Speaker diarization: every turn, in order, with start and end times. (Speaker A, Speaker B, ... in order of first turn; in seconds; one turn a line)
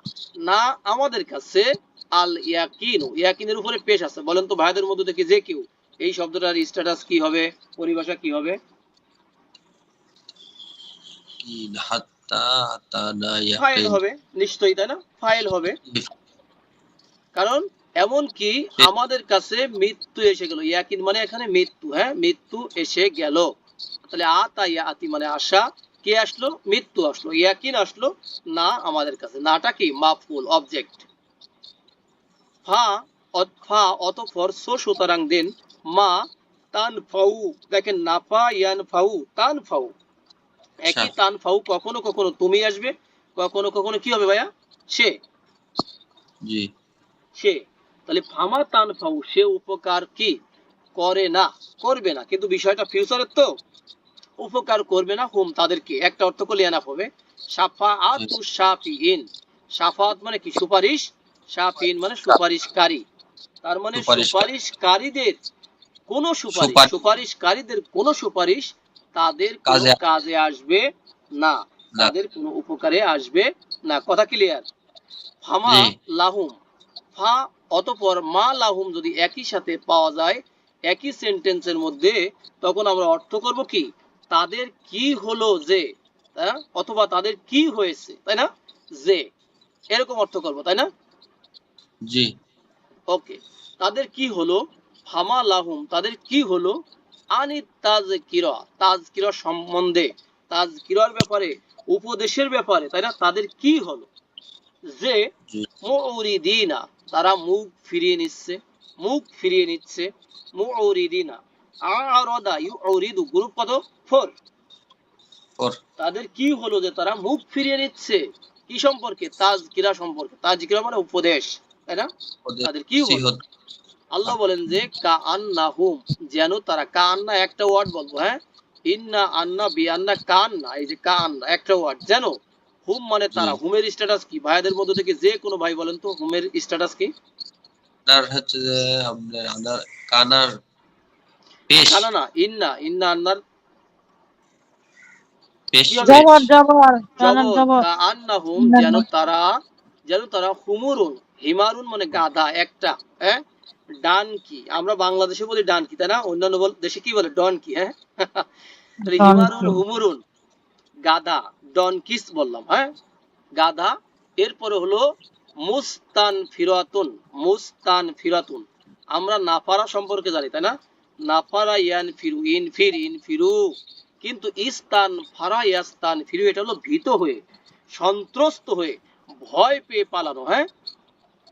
Speaker A: 0.4-8.6
Speaker B: 11.4-14.0
Speaker A: 13.6-15.8
Speaker A: 17.4-23.5
Speaker A: 24.1-31.1
Speaker A: 32.7-36.2
Speaker A: 36.7-39.9
Speaker A: 40.9-45.1
Speaker B: 40.9-41.1
Speaker A: 47.4-50.4
Speaker A: 51.0-53.5
Speaker A: 54.4-63.0
Speaker A: 63.6-65.4
Speaker B: 64.0-64.5
Speaker A: 66.1-70.8
Speaker B: 66.5-66.9
Speaker B: 69.7-70.0
Speaker A: 71.4-74.7
Speaker A: 75.4-76.5
Speaker B: 75.7-75.9
Speaker A: 77.2-89.2
Speaker A: 89.9-90.9
Speaker A: 93.1-96.8
Speaker A: 97.3-104.1
Speaker A: 104.9-105.2
Speaker A: 105.8-114.3
Speaker A: 116.0-122.1
Speaker B: 122.5-123.4
Speaker A: 122.6-123.2
Speaker A: 124.1-137.1
Speaker B: 133.3-133.6
Speaker B: 138.1-140.5
Speaker B: 141.7-142.1
Speaker A: 141.9-143.4
Speaker B: 145.7-146.5
Speaker A: 145.9-146.3
Speaker C: 146.1-147.8
Speaker A: 147.2-149.5
Speaker C: 148.6-149.0
Speaker A: 150.1-153.4
Speaker A: 154.0-158.5
Speaker A: 159.1-160.2
Speaker C: 159.1-159.8
Speaker A: 161.1-162.9
Speaker A: 163.6-165.0
Speaker A: 165.6-170.7
Speaker A: 171.3-173.6
Speaker A: 174.2-177.4
Speaker A: 178.0-180.7